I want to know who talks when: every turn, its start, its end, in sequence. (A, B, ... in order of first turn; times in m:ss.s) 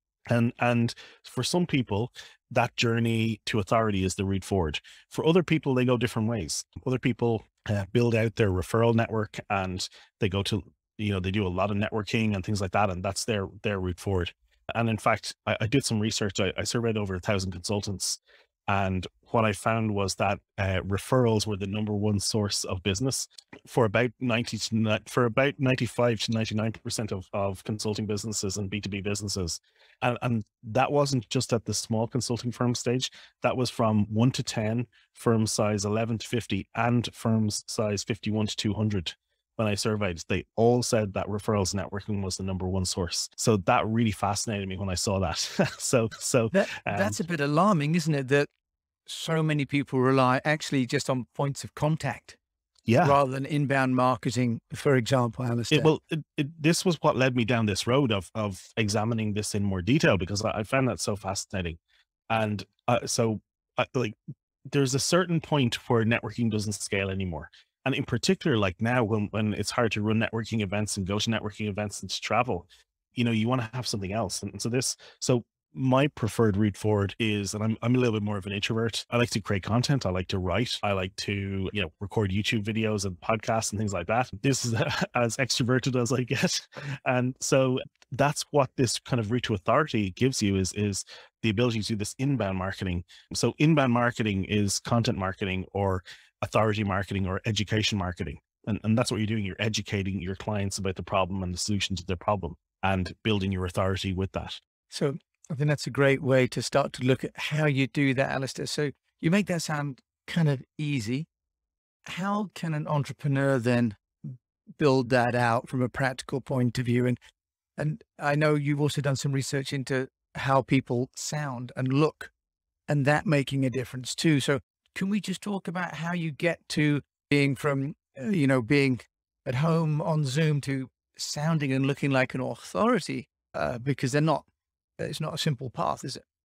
0:00.3-0:47.2 A
0:46.5-0:48.5 B
0:49.1-0:52.4 B
0:52.9-0:53.2 A
0:53.0-0:55.9 B
0:55.7-1:01.8 A
1:02.3-1:04.2 A
1:04.7-1:44.6 A
1:44.9-1:51.3 B
1:52.1-1:54.0 B
1:54.8-1:57.2 B
1:57.8-2:02.3 B
2:02.9-2:14.5 B
2:15.0-2:16.2 B